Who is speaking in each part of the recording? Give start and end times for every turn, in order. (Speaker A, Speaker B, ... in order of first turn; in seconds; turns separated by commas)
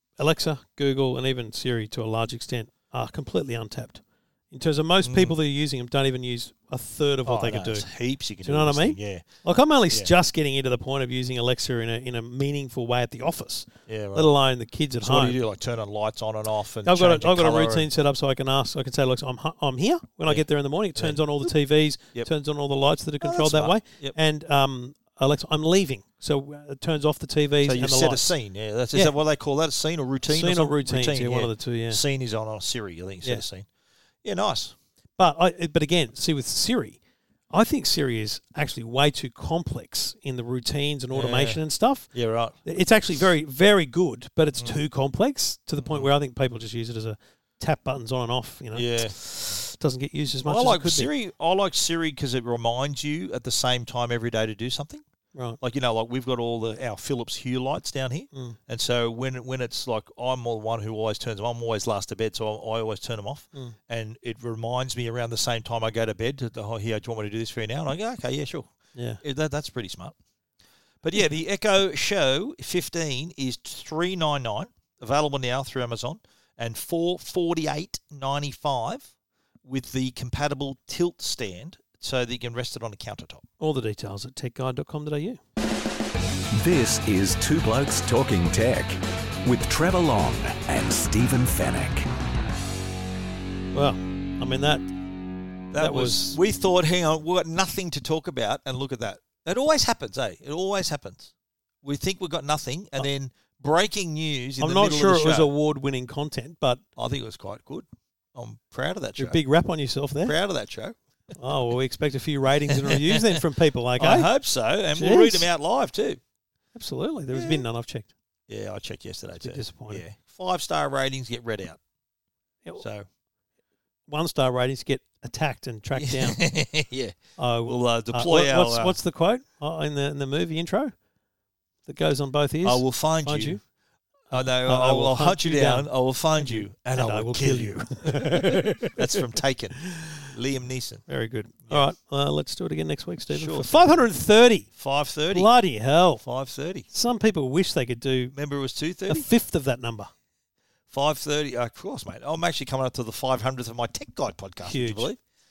Speaker A: 0.2-7.9, Speaker B: 5.0-5.4, Speaker B: 7.2-9.3, Speaker A: 8.4-15.4, Speaker B: 13.9-14.3, Speaker B: 15.0-17.9, Speaker A: 16.9-28.3, Speaker B: 20.2-21.5, Speaker B: 23.2-24.1, Speaker B: 27.6-33.7, Speaker A: 30.3-32.0, Speaker B: 34.2-34.7, Speaker A: 35.2-37.0, Speaker A: 37.5-42.1, Speaker B: 41.1-41.6, Speaker B: 42.1-42.5, Speaker A: 42.6-51.1, Speaker B: 45.8-46.1, Speaker B: 48.7-49.6, Speaker B: 50.4-55.0, Speaker A: 55.3-55.6, Speaker B: 55.6-70.1, Speaker A: 68.9-69.2, Speaker B: 71.0-79.1, Speaker B: 79.6-83.4, Speaker A: 83.6-85.4, Speaker C: 86.5-92.1, Speaker A: 93.7-94.8, Speaker B: 95.7-101.3, Speaker A: 95.8-96.4, Speaker B: 101.8-105.5, Speaker A: 104.6-106.8, Speaker B: 107.0-109.4, Speaker A: 109.2-110.3, Speaker B: 110.2-111.0, Speaker A: 111.4-114.3, Speaker B: 112.7-113.4, Speaker B: 114.0-116.2, Speaker A: 114.9-115.5, Speaker A: 116.7-118.1, Speaker B: 117.3-117.6, Speaker B: 118.5-121.8, Speaker A: 119.4-120.0, Speaker B: 122.8-123.0, Speaker A: 124.1-126.4, Speaker B: 126.0-129.0, Speaker A: 127.4-130.9, Speaker A: 131.8-133.6, Speaker B: 132.6-133.6, Speaker A: 134.3-139.2, Speaker B: 134.3-141.0, Speaker A: 139.8-140.3, Speaker A: 141.1-144.7, Speaker B: 143.3-144.1, Speaker B: 144.7-145.5, Speaker A: 145.3-146.2, Speaker B: 146.2-146.9, Speaker A: 146.9-148.3, Speaker B: 148.3-149.3, Speaker A: 149.1-150.1, Speaker B: 150.9-155.2, Speaker A: 154.6-155.1